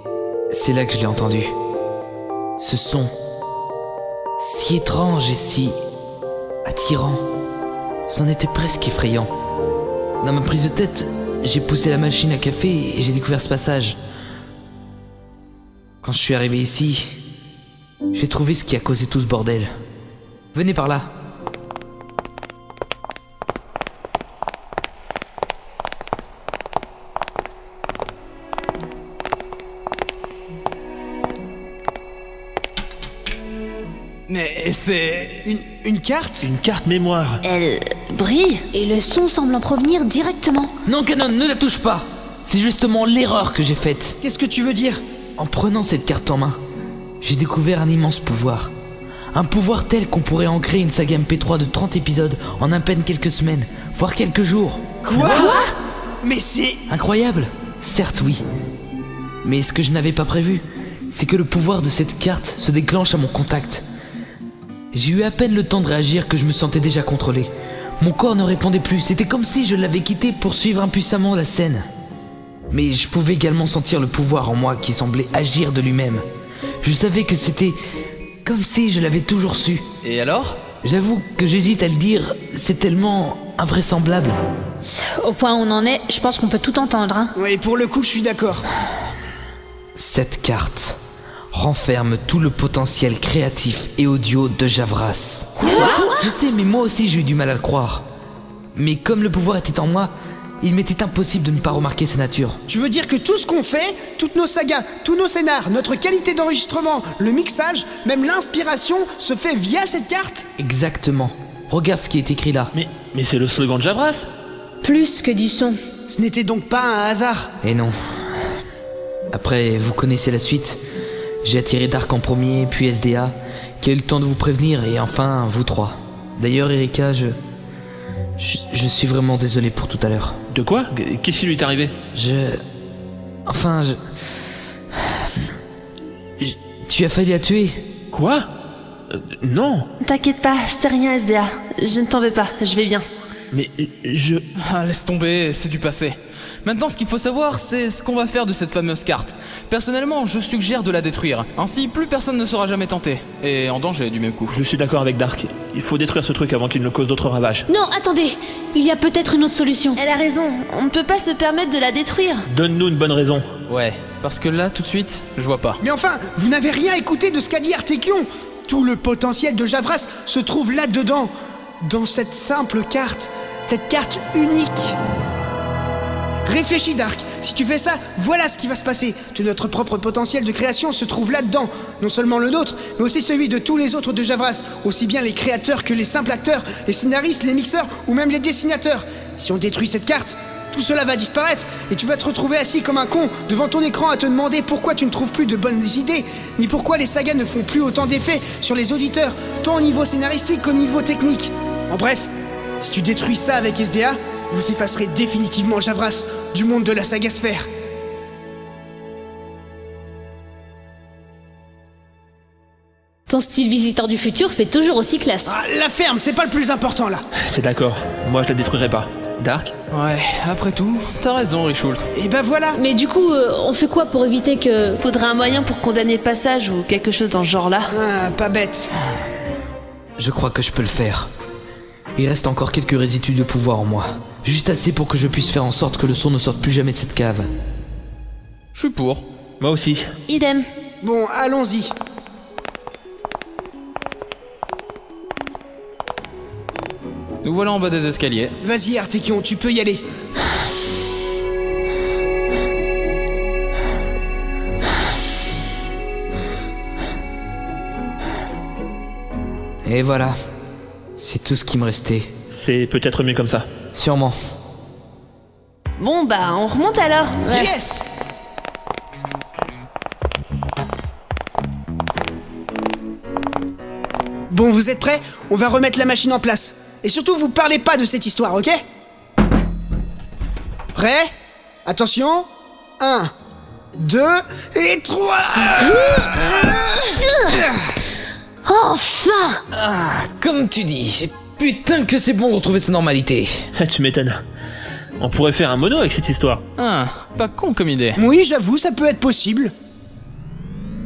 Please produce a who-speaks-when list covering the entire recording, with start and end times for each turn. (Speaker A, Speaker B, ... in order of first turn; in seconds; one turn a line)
Speaker A: 0.5-1.5
Speaker A: 2.6-3.1
Speaker A: 4.4-5.8
Speaker A: 6.6-7.2
Speaker A: 8.1-9.3
Speaker A: 10.2-14.0
Speaker A: 16.0-17.1
Speaker A: 18.1-19.7
Speaker A: 20.5-21.1
Speaker B: 34.3-35.5
Speaker C: 35.4-36.5
Speaker D: 36.4-37.4
Speaker E: 37.4-38.6
Speaker F: 38.7-40.7
Speaker A: 40.8-44.2
Speaker C: 44.2-45.0
Speaker A: 45.4-46.6
Speaker A: 47.2-48.7
Speaker A: 49.3-55.6
Speaker C: 55.0-55.6
Speaker F: 55.2-55.7
Speaker C: 56.2-56.9
Speaker A: 56.9-58.4
Speaker A: 59.4-63.8
Speaker A: 64.9-71.9
Speaker A: 72.7-76.2
Speaker A: 76.8-77.8
Speaker A: 78.4-79.8
Speaker B: 80.0-80.6
Speaker A: 80.8-84.3
Speaker F: 84.8-87.3
Speaker C: 87.3-88.7
Speaker A: 90.0-91.0
Speaker A: 91.5-98.0
Speaker F: 95.6-96.3
Speaker A: 98.7-102.6
Speaker C: 102.7-110.5
Speaker A: 110.6-112.7
Speaker D: 112.7-114.3
Speaker F: 114.8-115.8
Speaker C: 116.1-117.5
Speaker A: 117.6-118.0
Speaker A: 119.3-120.8
Speaker A: 121.4-127.4
Speaker A: 128.4-130.4
Speaker D: 130.5-131.9
Speaker A: 132.1-132.6
Speaker A: 133.5-134.0
Speaker A: 134.9-135.4
Speaker A: 136.4-137.8
Speaker D: 138.1-138.5
Speaker D: 139.1-139.9
Speaker E: 140.0-143.0
Speaker D: 143.5-144.4
Speaker B: 144.6-154.6
Speaker D: 154.5-157.6
Speaker F: 157.7-160.0
Speaker E: 159.9-162.4
Speaker D: 162.5-163.5
Speaker B: 163.7-165.8
Speaker C: 165.8-171.3
Speaker C: 171.8-175.0
Speaker C: 176.4-207.7
Speaker F: 213.3-215.5
Speaker C: 215.4-217.2
Speaker D: 217.4-219.7
Speaker B: 219.9-222.1
Speaker C: 222.1-222.8
Speaker F: 222.8-225.0
Speaker E: 225.0-227.9
Speaker C: 227.9-228.9
Speaker A: 230.2-231.3
Speaker A: 232.2-237.5
Speaker B: 238.7-239.2
Speaker D: 239.6-240.1
Speaker E: 240.3-240.6
Speaker C: 241.0-241.9
Speaker B: 247.4-248.5
Speaker C: 248.6-250.0
Speaker A: 259.8-260.4
Speaker A: 261.2-262.3
Speaker D: 262.5-263.7
Speaker A: 263.9-264.4
Speaker E: 266.0-267.8
Speaker C: 267.4-268.0
Speaker C: 274.5-278.8
Speaker C: 280.9-281.3
Speaker C: 281.8-282.5
Speaker C: 283.0-283.3
Speaker C: 283.9-286.1
Speaker A: 285.8-287.1
Speaker F: 288.6-289.6
Speaker A: 289.7-293.7
Speaker D: 293.8-294.4
Speaker D: 295.2-296.6
Speaker B: 296.8-298.2
Speaker C: 298.1-299.7